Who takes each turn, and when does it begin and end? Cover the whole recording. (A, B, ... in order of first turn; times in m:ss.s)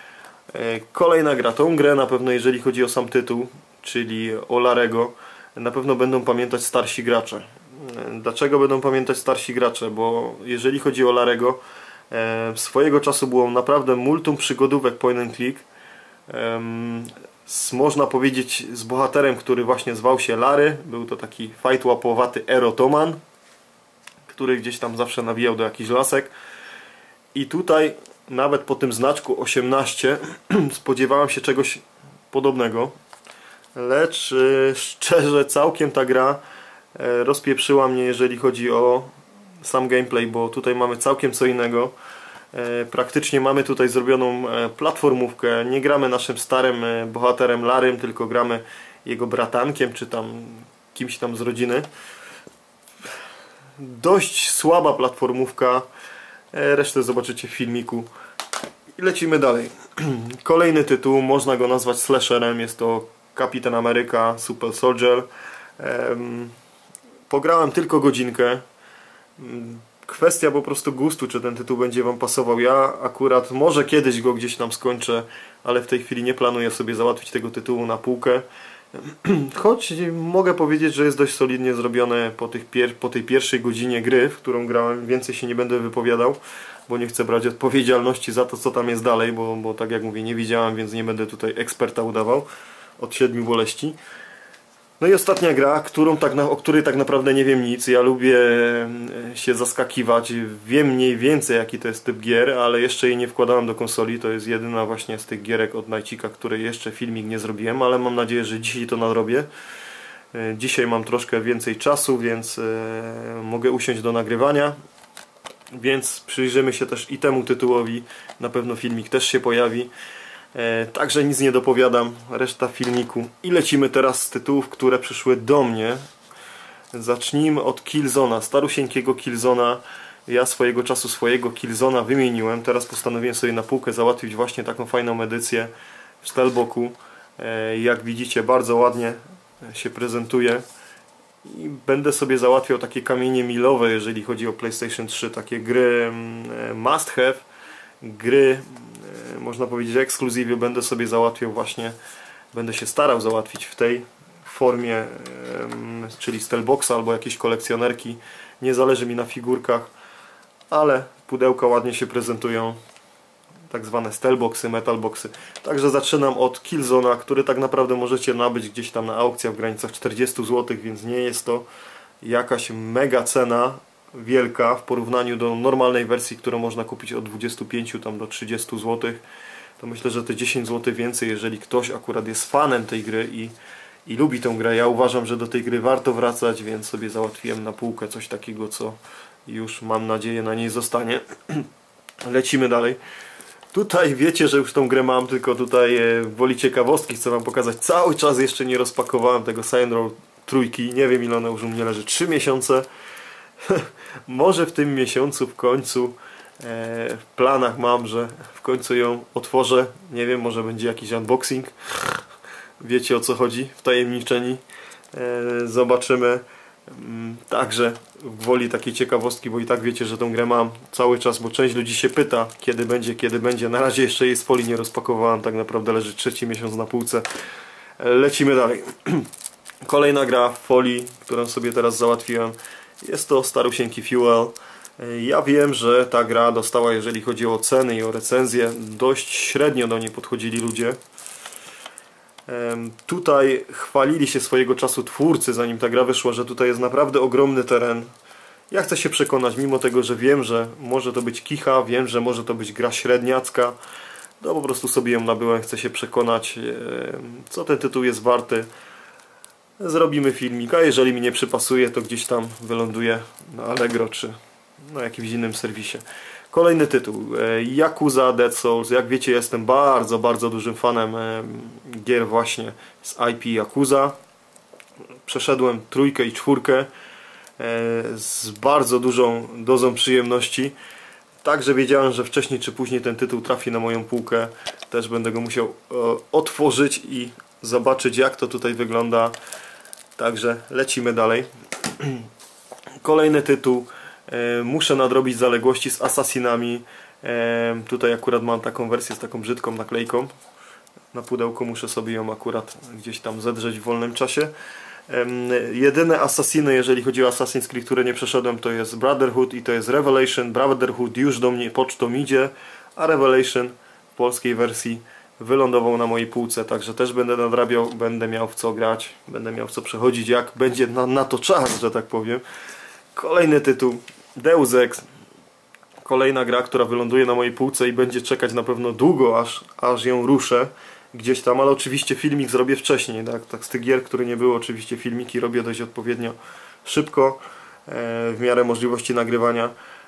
0:00.5-0:15.6 A
0:16.3-0:23.2 A
0:24.3-0:26.3 A
0:27.3-0:32.9 A
0:33.8-0:36.4 A
0:37.0-0:39.1 A
0:39.6-0:41.9 A
0:42.5-0:51.9 A
0:53.8-0:55.9 A
0:56.5-0:58.1 A
0:59.0-1:05.3 A
1:05.8-1:06.5 A
1:07.3-1:08.6 A
1:09.4-1:32.5 A
1:33.0-1:34.0 A
1:35.0-1:49.5 A
1:50.3-1:54.8 A
1:55.7-1:59.9 A
2:00.5-2:06.0 A
2:06.9-2:15.7 A
2:16.2-2:20.6 A
2:21.4-2:27.5 A
2:28.0-2:32.0 A
2:32.5-2:39.9 A
2:40.7-2:42.8 A
2:43.7-2:51.7 A
2:52.2-2:59.2 A
2:59.8-3:03.6 A
3:04.1-3:11.7 A
3:12.2-3:13.0 A
3:13.7-3:22.9 A
3:23.6-3:32.2 A
3:32.8-3:47.3 A
3:48.0-3:49.3 A
3:49.8-4:01.0 A
4:02.5-4:08.1 A
4:08.7-4:13.8 A
4:14.4-4:18.7 A
4:19.8-4:24.4 A
4:24.9-4:34.2 A
4:35.2-4:36.9 A
4:37.6-4:40.8 A
4:41.4-4:49.4 A
4:50.2-4:52.3 A
4:53.0-5:00.3 A
5:01.1-5:04.5 A
5:05.1-5:22.4 A
5:23.1-5:25.1 A
5:26.0-5:39.7 A